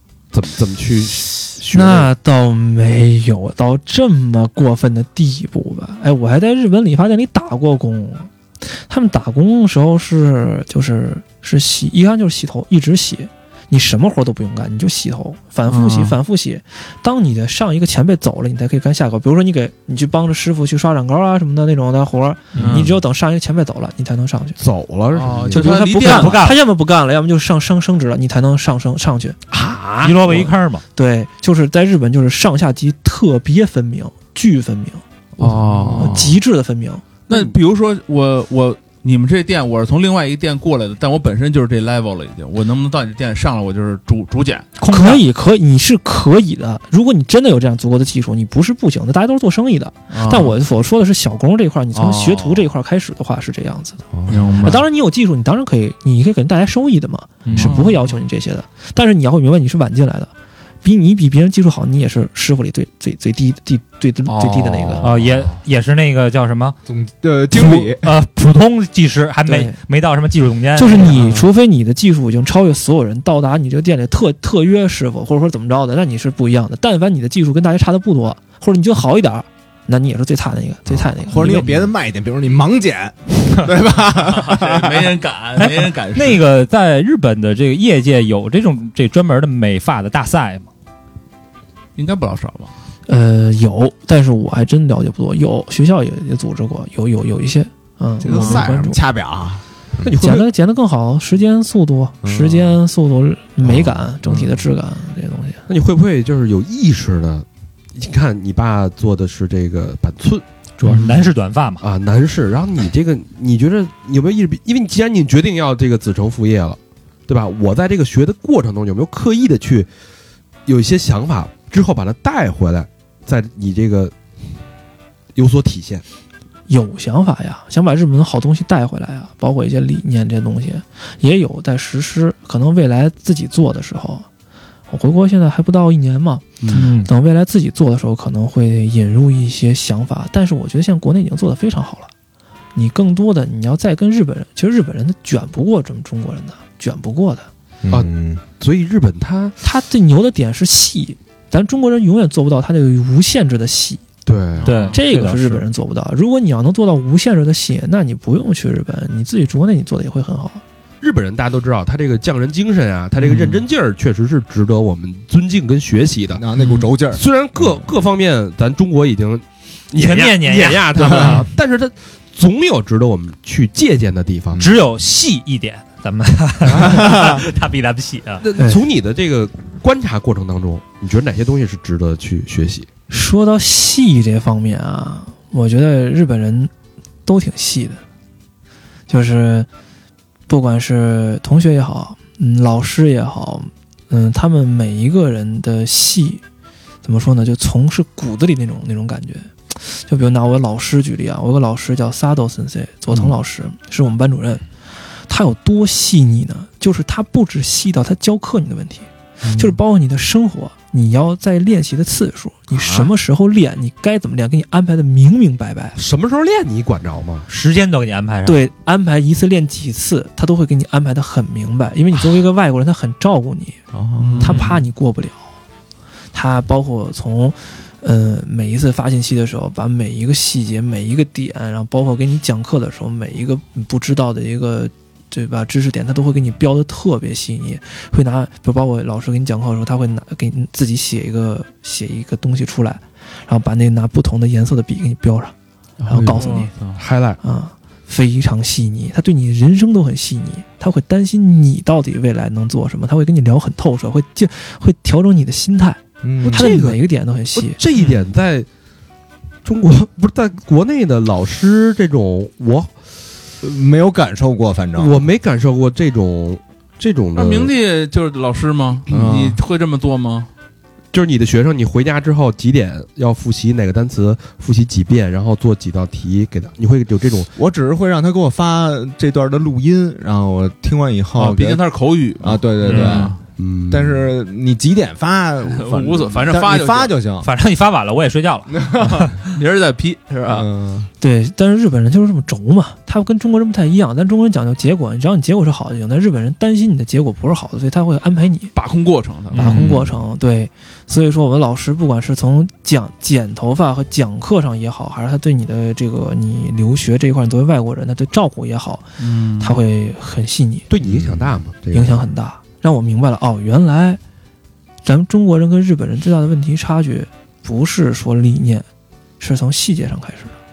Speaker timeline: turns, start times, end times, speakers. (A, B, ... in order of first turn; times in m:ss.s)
0:00.3-0:02.1 A
0:01.7-0:24.6 B
0:15.7-0:16.2 C
0:22.6-0:22.9 D
0:22.6-0:23.0 C
0:24.6-0:25.6 A
0:25.1-0:26.6 C
0:25.5-0:29.4 B
0:25.6-0:26.6 D
0:29.5-0:30.4 A
0:30.0-0:30.8 D
0:30.9-0:37.0 B
0:35.4-0:36.4 C
0:37.3-0:44.7 C
0:37.3-0:37.6 A
0:44.8-0:45.2 D
0:44.9-0:54.0 B
0:50.1-0:50.6 C
0:51.9-0:52.6 C
0:54.1-0:54.7 E
0:54.3-0:54.8 C
0:54.6-1:00.3 B
0:57.4-0:57.8 D
0:57.5-0:58.0 C
1:00.8-1:05.1 B
1:04.3-1:05.5 C
1:05.0-1:06.8 D
1:06.8-1:08.1 E
1:07.5-1:11.2 D
1:09.4-1:09.8 B
1:10.8-1:21.9 B
1:11.0-1:11.4 C
1:20.9-1:25.2 E
1:24.0-1:26.4 C
1:25.6-1:30.7 D
1:32.0-1:32.7 C
1:33.1-1:39.0 B
1:38.2-1:40.1 E
1:38.2-1:38.7 C
1:40.0-1:40.5 A
1:40.2-1:45.6 B
1:42.2-1:42.8 E
1:43.6-1:44.4 E
1:45.7-1:50.4 A
1:50.8-1:51.8 D
1:50.8-1:51.1 C
1:51.8-1:59.9 A
2:00.6-2:04.1 A
2:05.3-2:06.0 A
2:06.7-2:14.3 B
2:14.9-2:22.1 B
2:16.6-2:16.9 C
2:16.7-2:17.1 D
2:22.7-2:27.5 B
2:27.8-2:28.4 E
2:27.9-2:29.5 A
2:29.6-2:34.0 B
2:34.2-2:34.8 A
2:34.6-2:35.0 C
2:34.6-2:35.6 D
2:34.9-2:40.6 B
2:41.0-2:46.4 A
2:43.2-2:43.6 C
2:46.3-2:47.8 E
2:46.6-2:46.9 C
2:47.1-2:54.6 A
2:50.0-2:51.2 D
2:54.6-2:58.4 D
2:56.7-2:57.0 E
2:56.9-2:57.3 A
2:58.4-3:02.9 A
2:58.6-2:58.8 B
3:03.1-3:06.7 B
3:07.2-3:08.0 B
3:09.1-3:09.7 B
3:10.5-3:16.4 B
3:17.0-3:24.6 B
3:25.3-3:36.0 B
3:29.4-3:29.8 A
3:32.7-3:33.1 A
3:35.9-3:37.4 A
3:37.5-3:38.6 D
3:38.4-3:43.8 B
3:43.9-3:44.6 E
3:44.2-3:44.8 C
3:44.4-3:45.4 B
3:46.3-4:05.5 B
4:06.0-4:07.0 C
4:06.1-4:06.7 B
4:07.0-4:07.4 A
4:07.4-4:17.8 B
4:16.2-4:16.8 E
4:16.4-4:17.0 A
4:17.5-4:18.7 A
4:19.6-4:22.9 A
4:23.6-4:25.1 E
4:24.9-4:27.7 A
4:27.4-4:30.5 C
4:29.1-4:29.6 E
4:31.1-4:37.5 A
4:37.5-4:41.8 E
4:41.3-4:43.4 C
4:42.4-4:43.4 E
4:42.9-4:44.3 A
4:43.9-4:47.5 E
4:45.6-4:47.2 C
4:47.4-4:49.5 D
4:48.7-4:49.4 E
4:49.4-4:50.7 C
4:50.4-4:51.1 E
4:51.2-4:58.7 B
4:58.7-5:00.1 C
4:59.5-5:00.0 D
4:59.5-5:10.9 B
5:09.2-5:09.8 C
5:10.9-5:12.2 A
5:11.0-5:11.6 E
5:11.9-5:14.2 B
5:15.0-5:18.8 B
5:19.4-5:20.6 B